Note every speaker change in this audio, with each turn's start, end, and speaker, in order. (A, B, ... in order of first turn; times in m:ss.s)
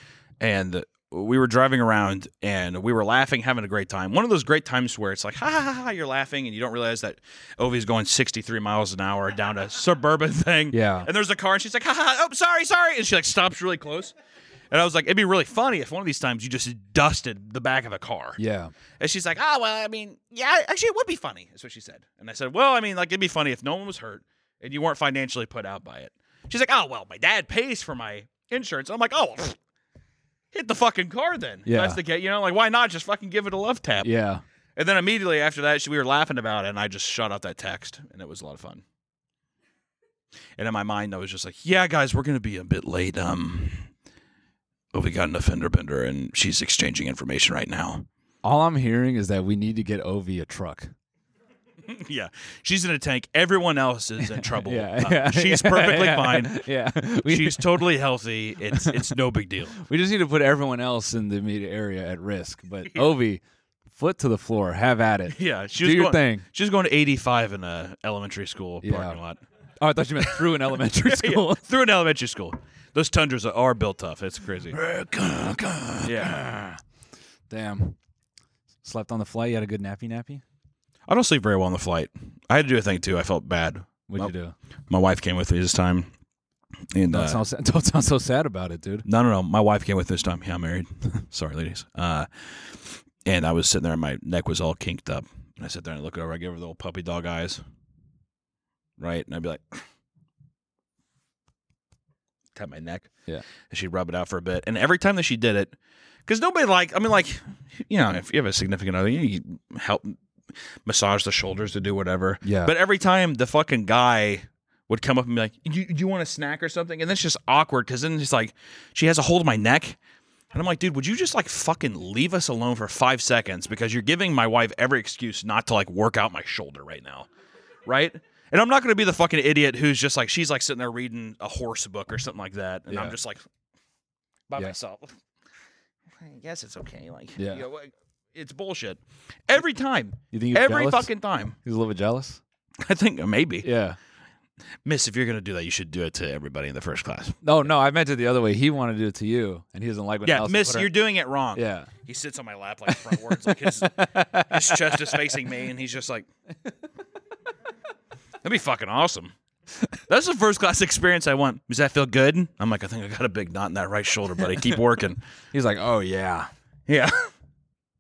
0:00.4-0:14.1 A
0:10.7-0:11.1 B
0:14.7-0:18.4 A
0:18.4-0:18.7 B
0:19.0-0:29.6 A
0:30.5-0:34.1 A
0:31.7-0:32.0 B
0:34.0-0:34.4 B
0:34.8-0:38.8 A
0:40.6-0:43.9 A
0:44.9-0:48.1 A
0:48.4-0:50.9 B
0:51.8-0:56.6 A
0:54.3-0:57.8 B
0:57.3-0:59.8 A
0:58.7-0:59.1 B
0:59.8-1:06.4 B
1:05.3-1:09.4 A
1:08.8-1:09.2 B
1:09.8-1:11.6 B
1:10.4-1:14.8 A
1:14.7-1:16.8 B
1:16.0-1:16.4 A
1:17.5-1:18.0 B
1:18.8-1:20.4 B
1:21.1-1:24.3 A
1:24.1-1:24.5 B
1:24.9-1:26.1 A
1:26.9-1:27.4 A
1:27.1-1:29.0 B
1:29.1-1:37.6 A
1:39.0-1:39.8 A
1:42.6-1:43.1 A
1:43.7-1:45.7 A
1:46.3-1:50.2 A
1:50.9-2:00.0 A
1:52.4-1:52.7 B
2:00.5-2:07.3 A
2:07.9-2:13.4 A
2:12.9-2:13.2 B
2:14.5-2:15.2 A
2:16.2-2:21.6 A
2:17.4-2:17.6 B
2:20.3-2:21.1 B
2:21.6-2:22.4 B
2:22.8-2:23.7 A
2:23.6-2:24.0 B
2:24.8-2:27.4 A
2:27.4-2:30.9 B
2:30.3-2:36.3 A
2:31.6-2:31.9 B
2:32.9-2:35.2 B
2:38.4-2:39.3 A
2:40.1-2:45.2 A
2:45.5-2:46.5 B
2:46.9-2:47.3 A